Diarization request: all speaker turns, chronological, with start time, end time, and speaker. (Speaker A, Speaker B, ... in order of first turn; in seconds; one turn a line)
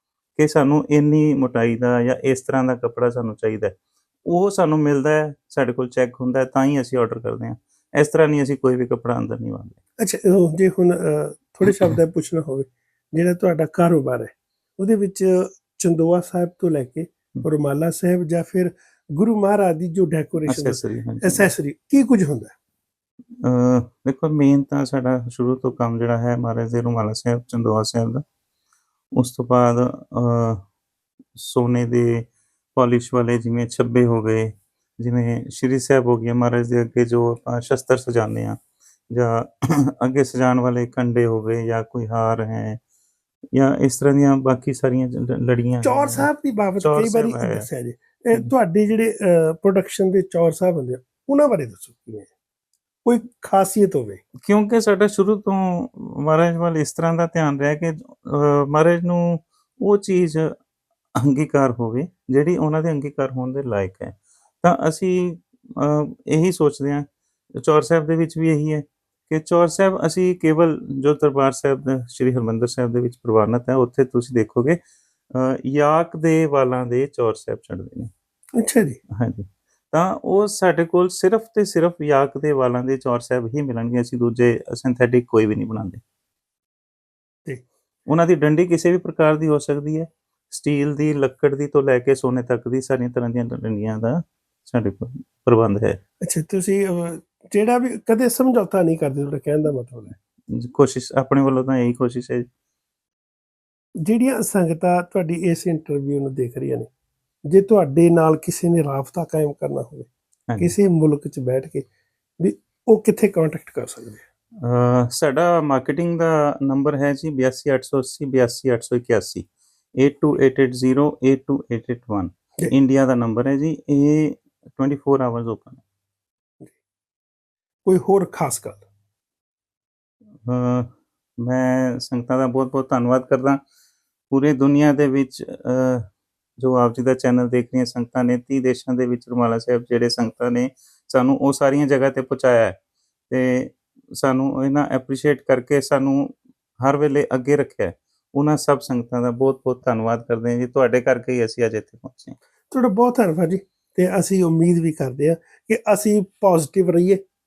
Speaker A: 0.3-9.8
Speaker B: 10.0-22.5
Speaker A: 11.6-12.0
Speaker A: 20.4-21.5
Speaker A: 23.4-28.2
Speaker A: 29.1-30.6
Speaker A: 31.3-42.8
Speaker A: 43.5-47.7
Speaker B: 45.8-52.3
Speaker B: 53.0-54.2
Speaker A: 54.4-60.5
Speaker A: 61.1-74.8
Speaker A: 75.3-78.1
Speaker B: 78.6-79.0
Speaker A: 79.1-86.0
Speaker A: 88.1-96.0
Speaker B: 96.2-100.1
Speaker A: 100.5-102.5
Speaker B: 104.0-106.9
Speaker B: 107.5-110.1
Speaker A: 110.5-110.8
Speaker B: 110.6-111.8
Speaker B: 112.4-114.2
Speaker A: 114.6-125.8
Speaker B: 127.8-128.8
Speaker A: 130.4-133.6
Speaker A: 134.3-142.8
Speaker A: 143.3-152.4
Speaker B: 152.7-157.2